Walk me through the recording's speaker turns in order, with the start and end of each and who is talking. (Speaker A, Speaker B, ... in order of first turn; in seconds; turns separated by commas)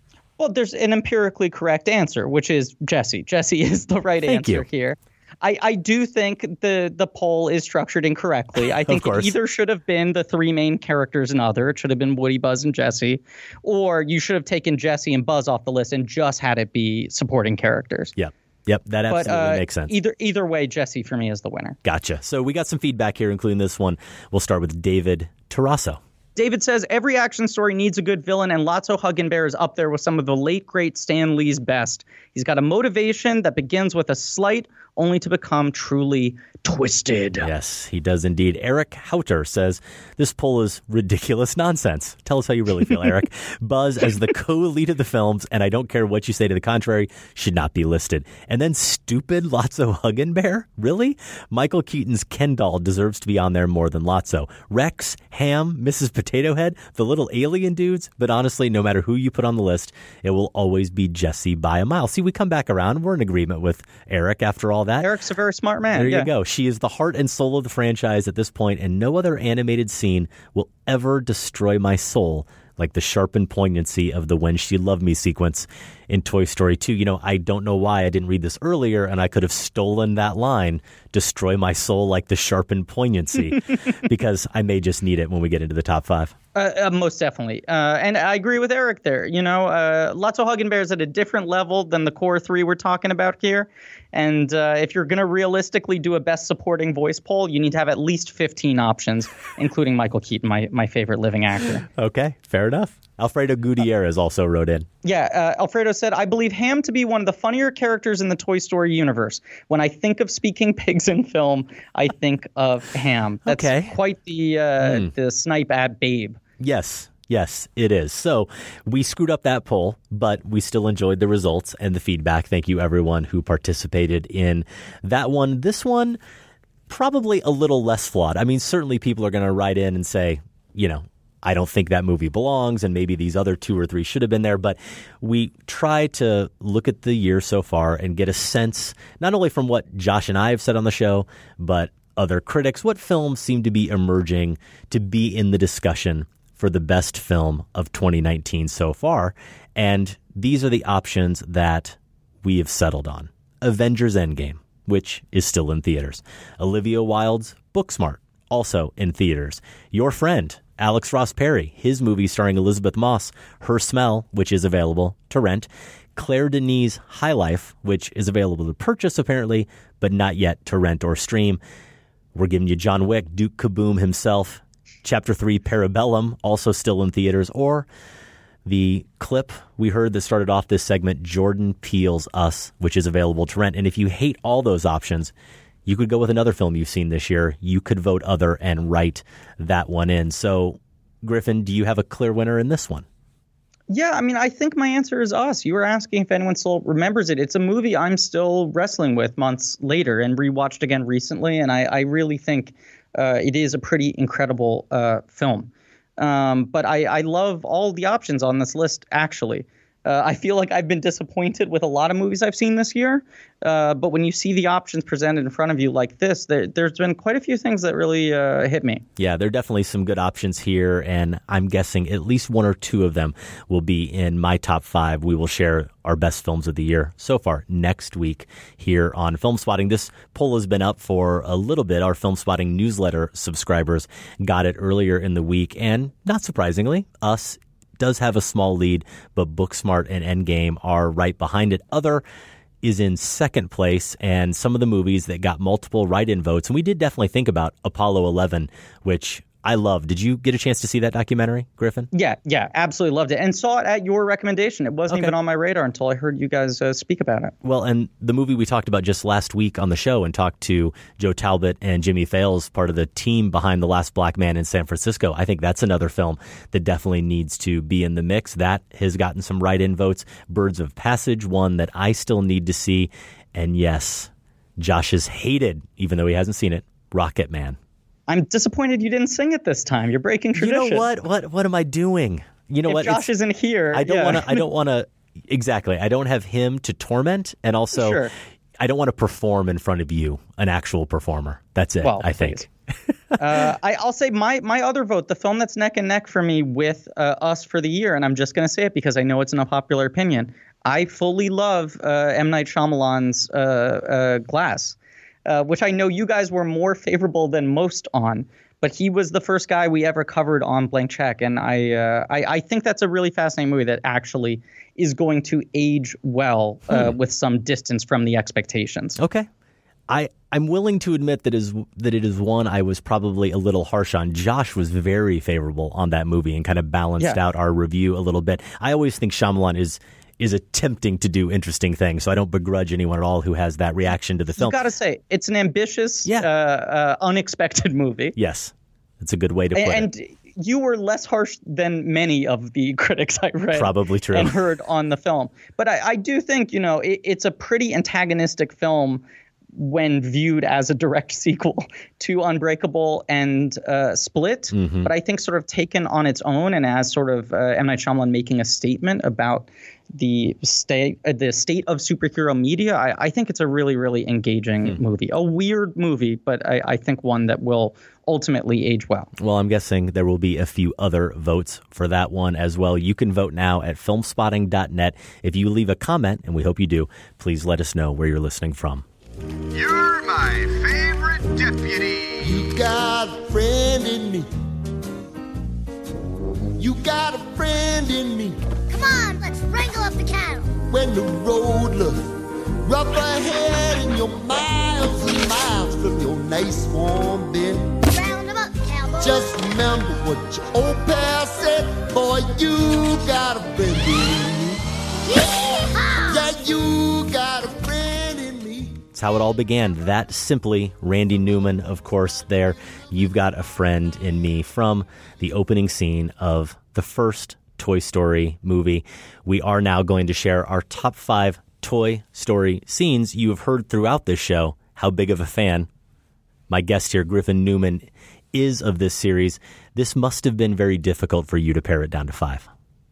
Speaker A: 0.4-18.1, Speaker B: 4.2-4.6, Speaker B: 8.8-9.3, Speaker B: 18.1-19.9, Speaker A: 19.1-21.8, Speaker B: 21.8-26.0, Speaker A: 26.4-37.5, Speaker B: 37.4-65.1, Speaker A: 65.0-66.3, Speaker B: 65.9-86.3, Speaker A: 86.5-101.8, Speaker B: 101.9-104.9, Speaker A: 105.0-116.4, Speaker B: 113.5-114.0, Speaker B: 114.8-115.1, Speaker B: 116.6-126.2, Speaker B: 126.9-171.6, Speaker B: 172.3-177.9, Speaker B: 178.6-185.3, Speaker B: 185.8-193.1, Speaker A: 193.9-219.0, Speaker B: 219.2-242.2, Speaker B: 242.8-252.1, Speaker A: 252.1-257.5, Speaker B: 255.1-255.3, Speaker B: 257.6-277.8, Speaker A: 278.3-281.1, Speaker B: 280.6-283.3, Speaker A: 282.9-284.6, Speaker B: 283.9-292.7, Speaker A: 287.9-288.3, Speaker A: 292.0-292.6, Speaker A: 293.4-319.2, Speaker B: 319.2-319.5, Speaker B: 320.1-334.8, Speaker A: 334.6-338.3, Speaker B: 338.3-340.1, Speaker A: 339.7-349.2, Speaker B: 343.7-344.6, Speaker A: 349.8-369.3, Speaker B: 354.7-355.1, Speaker B: 369.4-379.0, Speaker C: 379.7-382.4, Speaker D: 382.4-384.5, Speaker D: 386.8-388.6, Speaker E: 388.9-390.8, Speaker D: 390.8-392.2, Speaker D: 392.9-397.9, Speaker E: 398.1-399.5, Speaker D: 399.2-404.8, Speaker E: 405.3-406.4, Speaker D: 406.3-409.0, Speaker B: 409.1-425.9, Speaker B: 426.7-432.7